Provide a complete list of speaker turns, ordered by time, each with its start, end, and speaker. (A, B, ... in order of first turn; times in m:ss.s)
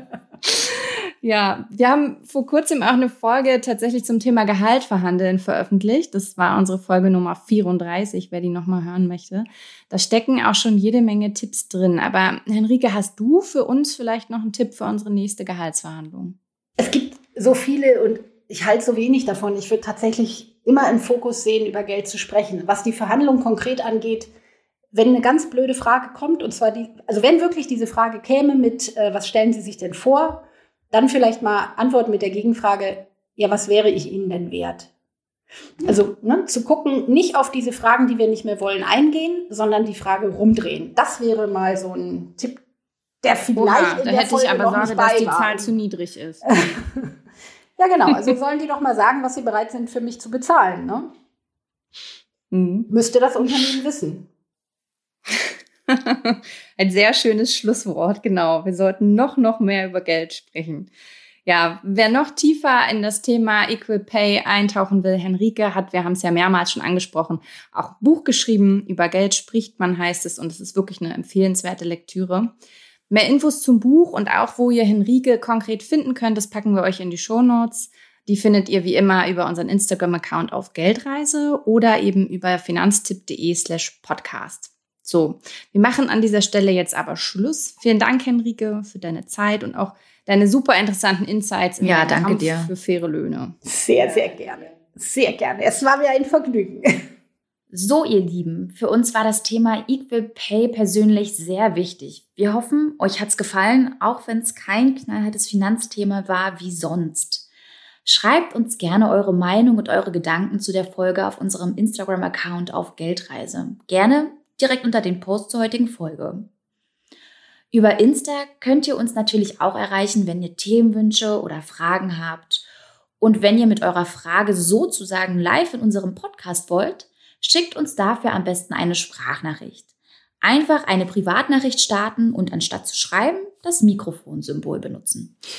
0:00.4-0:16.4 A
0:16.8-0:24.3 B
0:24.9-0:34.9 B
0:35.8-0:42.6 B
0:43.2-0:45.7 B
0:43.6-0:46.5 A
0:46.5-0:47.1 B
0:47.8-0:51.1 B
0:52.5-0:52.9 A
0:52.9-0:54.3 B
0:55.3-1:00.9 A
1:01.4-1:12.5 A
1:13.1-1:33.6 A
1:31.8-1:32.7 C
1:33.6-1:36.8 B
1:37.7-1:47.4 C
1:48.0-1:56.5 C
1:57.7-2:02.6 C
2:03.2-2:09.8 C
2:10.4-2:15.3 C